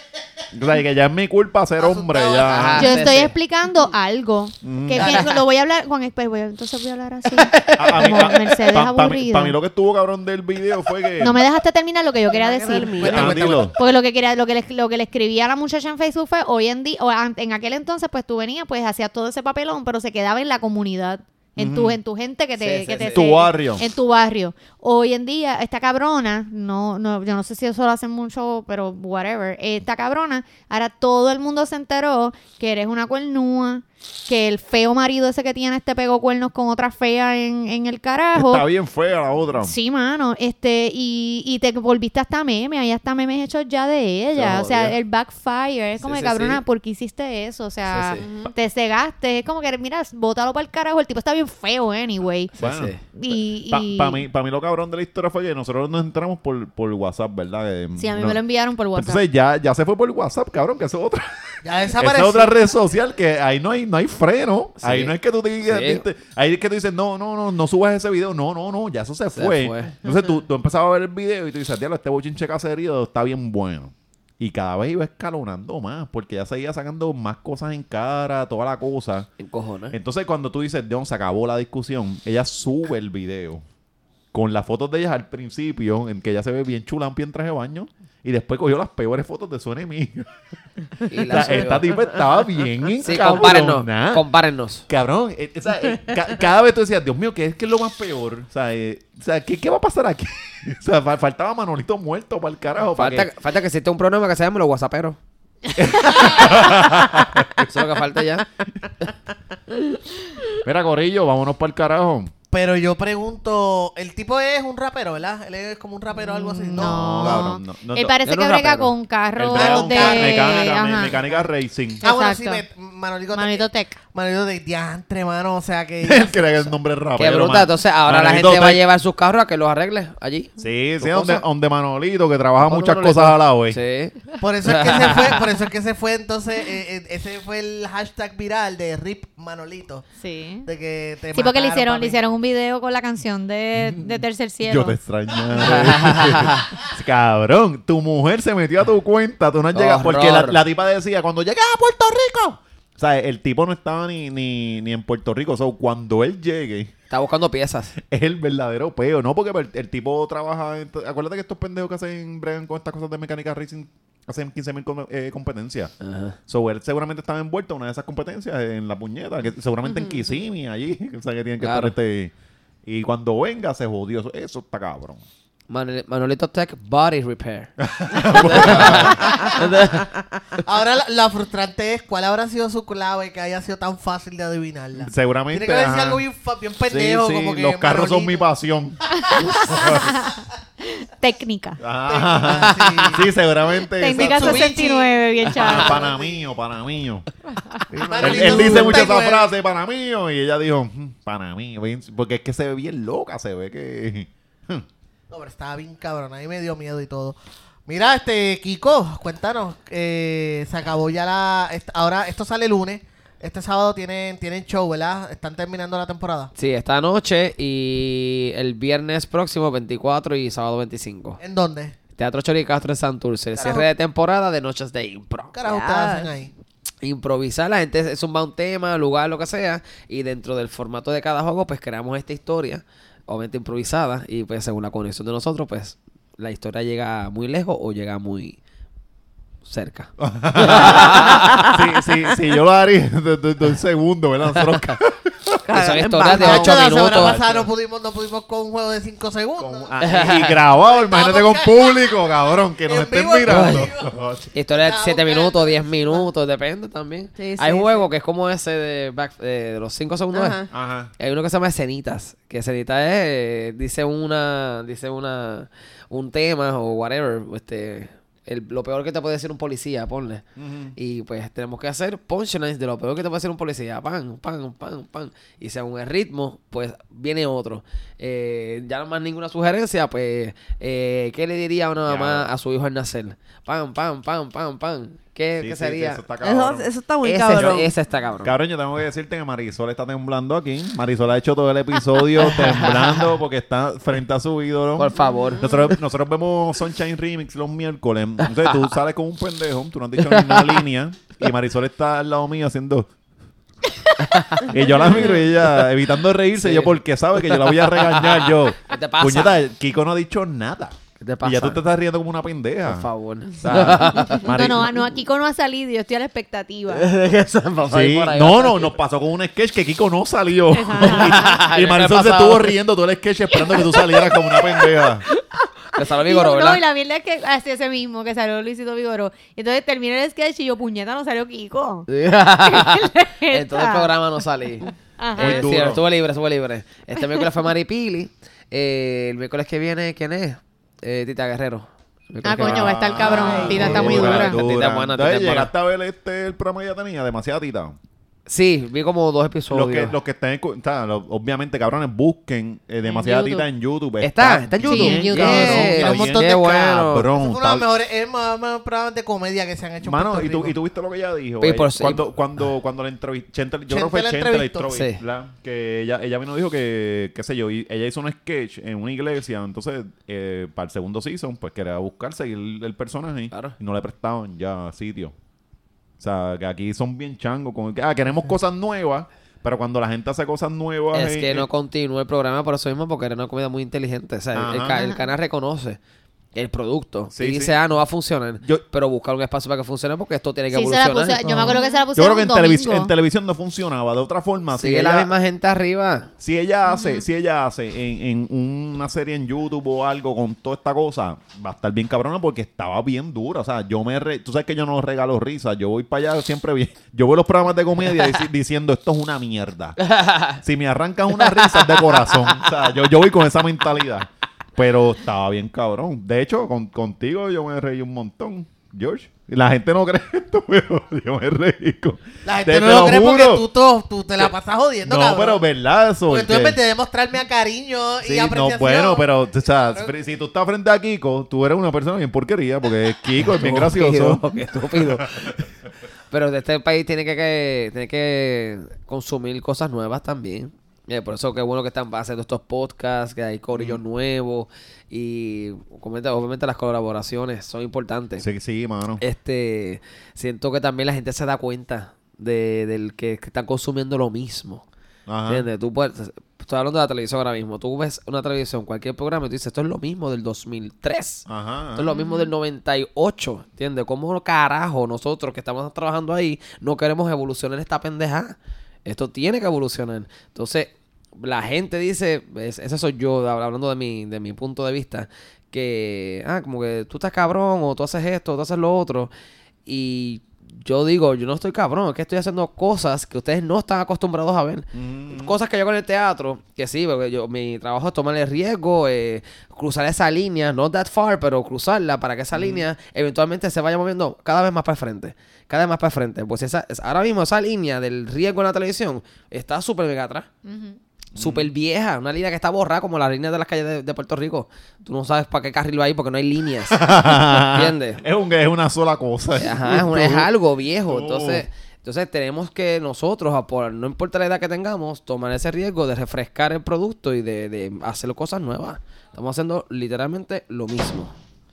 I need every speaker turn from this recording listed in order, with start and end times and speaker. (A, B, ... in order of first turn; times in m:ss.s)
0:00.5-0:02.9 A
0:01.8-0:02.9 B
0:02.4-0:03.3 C
0:02.8-0:09.6 D
0:04.6-0:05.3 A
0:07.5-0:07.9 C
0:07.7-0:11.4 A
0:11.2-0:38.6 D
0:12.3-0:13.4 E
0:13.0-0:13.7 B
0:13.0-0:13.8 A
0:21.6-0:22.0 A
0:22.6-0:23.3 C
0:23.1-0:23.8 A
0:38.3-0:39.7 A
0:39.6-0:52.5 D
0:44.4-0:45.0 C
0:46.0-0:46.6 C
0:47.9-0:48.3 C
0:48.2-0:48.5 E
0:52.6-0:53.0 C
0:52.6-0:58.4 A
0:53.2-0:54.2 D
0:58.0-0:59.2 D
0:59.0-1:19.3 A
1:01.6-1:02.6 B
1:04.8-1:06.0 C
1:09.3-1:10.0 C
1:19.4-1:20.0 C
1:19.9-1:23.6 A
1:24.3-1:30.3 A
1:31.1-1:32.0 C
1:31.2-1:34.3 A
1:33.0-1:34.8 C
1:34.9-1:43.3 A
1:43.0-1:45.2 C
1:45.8-1:47.7 A
1:47.6-1:48.5 C
1:50.6-1:52.3 A
1:52.5-1:57.4 B
1:56.3-2:01.2 D
1:56.7-1:58.3 A
1:58.3-1:58.9 C
1:59.4-2:02.0 A
1:59.5-2:01.4 B
2:02.0-2:06.7 B
2:02.0-2:02.6 D
2:03.3-2:04.0 D
2:06.0-2:08.8 A
2:07.2-2:11.4 C
2:10.6-2:13.8 A
2:12.6-2:15.4 C
2:14.4-2:20.1 B
2:20.2-2:20.7 D
2:20.7-2:22.2 B
2:21.3-2:25.0 D
2:23.8-2:36.9 A
2:25.6-2:26.7 C
2:29.7-2:30.6 C
2:37.1-2:38.0 C
2:38.1-2:45.9 A
2:46.0-2:46.4 C
2:46.5-2:52.3 A
2:51.6-2:51.9 C
2:52.9-2:55.2 A
2:55.7-3:00.1 C
2:57.8-2:59.3 A
2:59.2-3:00.1 E
3:00.6-3:08.5 B
3:05.0-3:06.2 A
3:06.9-3:10.1 A
3:09.2-3:11.8 D
3:09.6-3:10.0 B
3:11.8-3:14.7 A
3:12.1-3:13.3 B
3:12.5-3:13.2 C
3:14.0-3:16.1 D
3:14.1-3:16.4 B
3:15.5-3:17.2 A
3:17.9-3:19.5 B
3:18.2-3:24.9 A
3:18.2-3:18.8 C
3:25.3-3:27.4 B
3:27.9-3:36.5 B
3:36.6-3:41.4 C
3:41.4-3:42.0 B
3:42.2-3:45.6 C
3:45.5-3:46.5 B
3:45.6-3:46.3 E
3:47.0-3:58.6 C
3:59.6-4:01.7 C
4:00.2-4:05.6 A
4:01.2-4:01.8 E
4:04.5-4:05.0 C
4:05.6-4:07.0 E
4:05.7-4:07.4 C
4:06.3-4:09.9 B
4:07.0-4:07.7 A
4:09.6-4:14.5 A
4:10.0-4:10.6 C
4:10.7-4:14.1 B
4:13.4-4:13.9 C
4:14.5-4:20.7 C
4:14.7-4:16.3 B
4:17.4-4:18.1 E
4:20.3-4:20.7 E
4:20.7-4:21.1 A
4:21.2-4:30.4 C
4:30.6-4:31.0 A
4:31.0-4:46.2 C
4:42.1-4:42.5 A
4:45.6-4:46.9 A
4:46.4-4:47.9 E
4:47.2-4:48.5 C
4:47.5-4:47.8 A
4:48.4-5:03.1 A
4:52.4-4:53.3 C
4:55.0-4:55.7 C
4:55.2-4:55.9 E
5:00.2-5:00.8 C
5:04.2-5:05.8 C
5:04.7-5:13.1 A
5:06.6-5:09.6 C
5:11.2-5:11.8 C
5:12.8-5:14.5 C
5:13.6-5:15.0 A
5:14.4-5:17.1 D
5:16.9-5:19.0 C
5:17.9-5:25.2 A
5:20.7-5:21.6 D
5:21.0-5:22.8 C
5:23.5-5:32.1 D
5:26.0-5:26.8 C
5:32.1-5:45.7 C
5:32.6-5:34.1 D
5:34.9-5:35.6 D
5:35.4-5:36.0 A
5:42.4-5:44.6 D
5:42.6-5:48.0 A
5:43.4-5:44.2 E
5:48.5-5:50.2 C
5:49.7-5:57.9 A
5:53.2-5:53.6 D
5:54.2-5:57.3 C
5:54.8-5:55.9 D
5:55.4-6:00.8 B
6:00.0-6:15.3 A
6:01.6-6:02.2 C
6:03.9-6:04.9 B
6:04.9-6:05.2 C
6:16.2-6:21.7 A
6:21.1-6:26.0 C
6:24.5-6:25.1 A
6:25.0-6:25.2 D
6:26.6-6:31.7 C
6:27.3-6:27.8 A
6:30.7-6:33.1 D
6:31.5-6:35.3 A
6:34.7-6:36.3 C
6:36.4-6:50.0 A
6:36.9-6:37.2 D
6:50.0-6:50.6 C
6:50.6-7:03.7 A
6:51.4-6:52.6 C
7:02.4-7:05.6 B
7:04.4-7:06.8 A
7:06.3-7:09.3 B
7:08.2-7:14.4 A
7:09.9-7:10.1 B
7:13.5-7:15.3 C
7:15.2-7:15.6 A
7:16.3-7:28.5 C
7:23.7-7:24.0 A
7:28.4-7:29.2 A
7:29.2-7:34.8 C
7:35.3-7:35.6 A
7:35.5-7:59.3 C
7:41.5-7:42.1 A
7:42.1-7:42.5 D
7:59.9-8:20.5 C
8:04.9-8:05.5 A
8:12.5-8:12.9 A
8:20.6-8:21.0 D
8:21.4-8:21.7 A
8:21.4-8:28.2 C
8:26.9-8:30.5 A
8:29.6-8:41.3 C
8:31.0-8:31.6 A